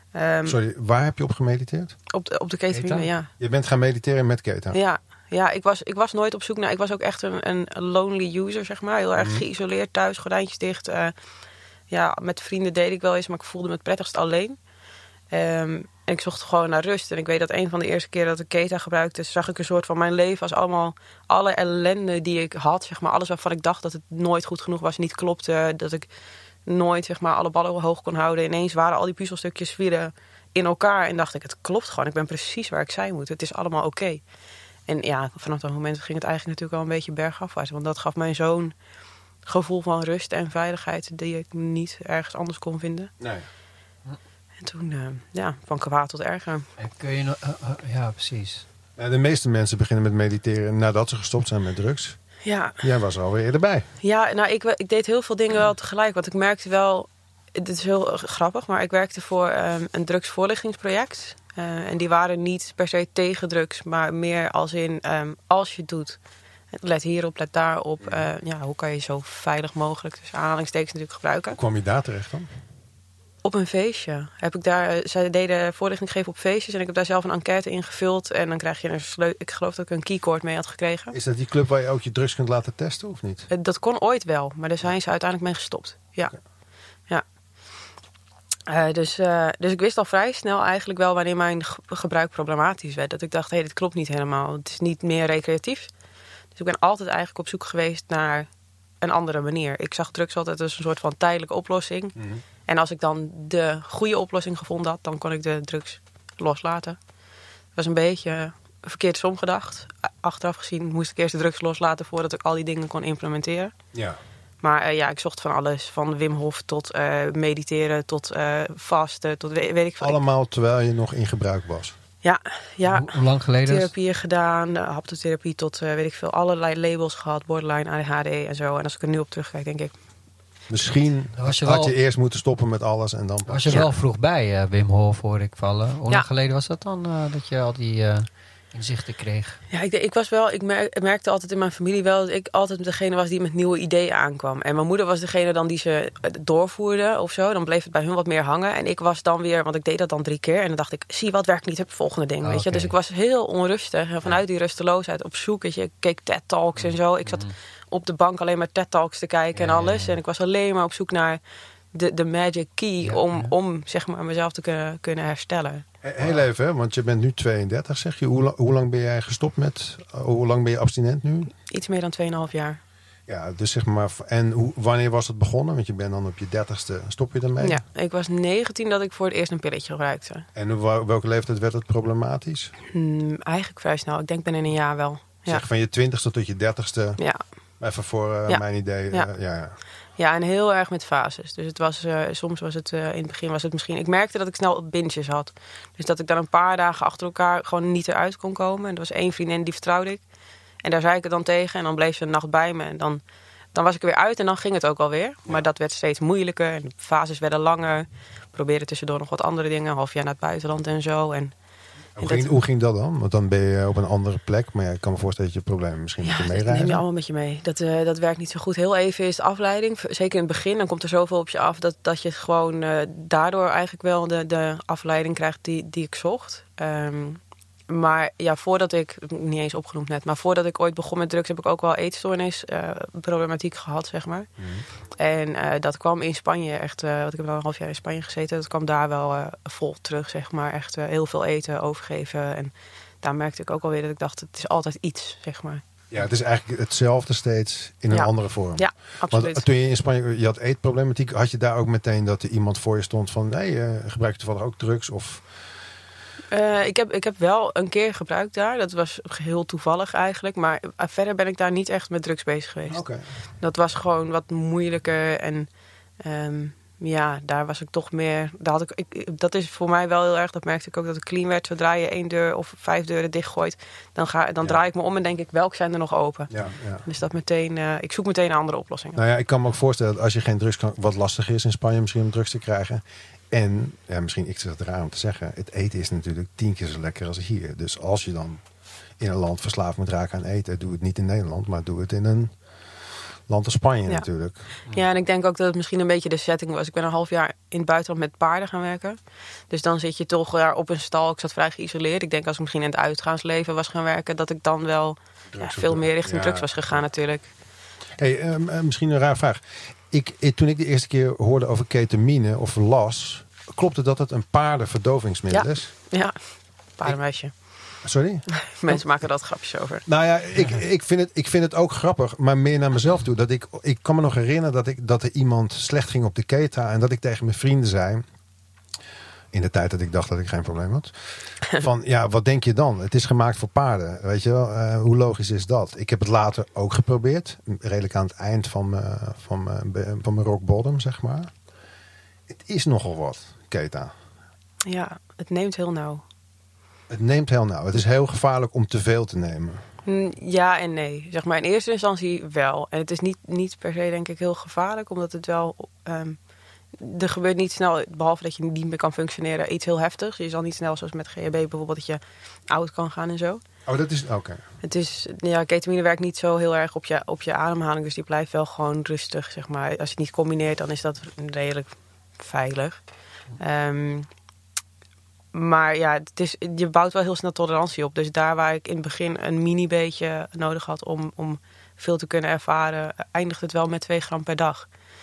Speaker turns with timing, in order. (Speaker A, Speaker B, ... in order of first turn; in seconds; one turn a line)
Speaker A: 0.1-0.6
Speaker B: 0.4-1.9
Speaker A: 2.1-3.3
Speaker C: 2.7-3.1
Speaker B: 3.4-4.8
Speaker A: 4.7-11.1
Speaker B: 9.2-9.4
Speaker A: 11.9-14.6
Speaker A: 15.3-26.1
Speaker A: 26.6-34.2
Speaker A: 34.9-38.7
Speaker A: 39.4-43.1
Speaker B: 43.2-43.5
Speaker A: 44.6-46.6
Speaker C: 46.8-48.6
Speaker B: 49.0-53.9
Speaker A: 52.4-52.8
Speaker A: 54.0-66.2
Speaker A: 66.7-71.6
Speaker B: 68.0-68.3
Speaker B: 71.5-72.5
Speaker A: 73.4-81.2
Speaker B: 81.1-83.5
Speaker A: 83.5-86.3
Speaker A: 88.7-95.9
Speaker A: 96.5-98.5
Speaker A: 99.0-107.0
Speaker B: 102.2-102.4
Speaker A: 107.7-113.7
Speaker A: 114.6-120.2
Speaker B: 120.0-122.0
Speaker A: 122.2-129.9
Speaker C: 122.8-123.9
Speaker B: 130.7-133.9
Speaker C: 131.4-131.9
Speaker C: 133.5-139.6
Speaker A: 139.7-161.4
Speaker C: 152.4-152.9
Speaker C: 156.8-157.5
Speaker C: 159.5-160.2
Speaker A: 161.9-165.9
Speaker C: 163.0-163.5
Speaker B: 166.0-171.5
Speaker A: 171.7-172.8
Speaker B: 173.3-177.8
Speaker A: 177.6-180.4
Speaker B: 180.5-182.7
Speaker A: 182.9-185.6
Speaker B: 185.5-187.2
Speaker A: 187.2-187.4
Speaker B: 187.8-189.8
Speaker A: 188.5-189.3
Speaker A: 190.2-200.2
Speaker A: 200.8-203.2
Speaker A: 203.7-211.5
Speaker B: 212.2-217.0
Speaker A: 212.2-212.5
Speaker A: 216.2-234.5
Speaker B: 234.6-234.9
Speaker A: 235.1-245.8
Speaker B: 246.1-255.5
Speaker A: 248.1-249.6
Speaker A: 256.5-263.0
Speaker B: 262.9-263.2
Speaker A: 263.6-265.7
Speaker A: 266.2-276.5
Speaker B: 276.5-277.0
Speaker A: 277.0-279.2
Speaker B: 279.1-288.7
Speaker B: 289.2-294.7
Speaker A: 294.8-307.5
Speaker B: 305.5-307.0
Speaker B: 308.2-315.9
Speaker A: 315.5-317.8
Speaker B: 317.9-319.3
Speaker A: 318.6-320.1
Speaker B: 320.0-328.2
Speaker B: 329.5-341.5
Speaker B: 342.5-344.1
Speaker A: 344.9-346.2
Speaker B: 347.1-349.8
Speaker A: 350.0-356.4
Speaker A: 356.9-363.6
Speaker B: 363.9-364.6
Speaker A: 364.8-374.3
Speaker A: 375.5-384.9